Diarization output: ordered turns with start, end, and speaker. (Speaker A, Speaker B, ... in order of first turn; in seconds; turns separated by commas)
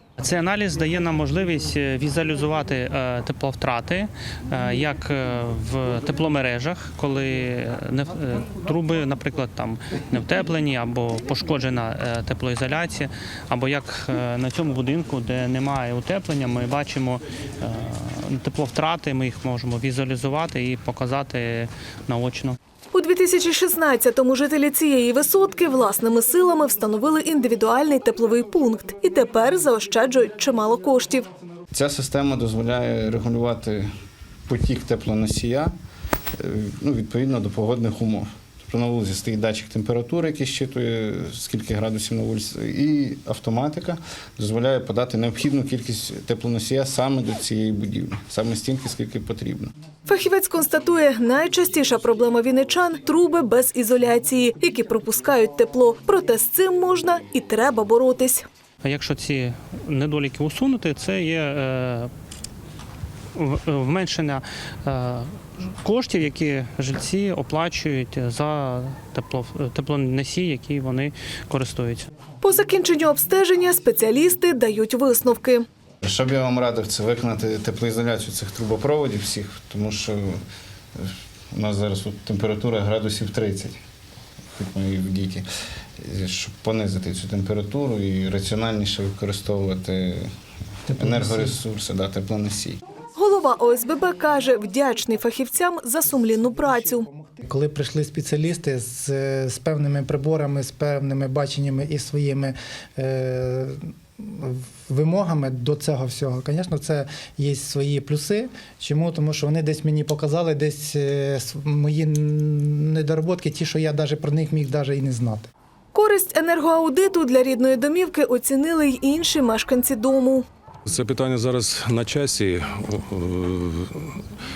Speaker A: 0.2-22.6, Speaker B: 22.9-31.3, Speaker C: 31.7-33.9, Speaker C: 34.5-35.7, Speaker C: 36.4-49.7, Speaker B: 50.0-58.4, Speaker A: 58.8-62.1, Speaker A: 63.3-72.1, Speaker B: 72.4-75.6, Speaker C: 76.0-80.4, Speaker C: 80.9-83.8, Speaker C: 84.5-85.4, Speaker C: 86.0-90.3, Speaker D: 90.9-91.5, Speaker C: 90.9-92.8, Speaker B: 93.2-97.1, Speaker D: 96.7-115.5, Speaker B: 115.9-120.5, Speaker E: 120.9-124.2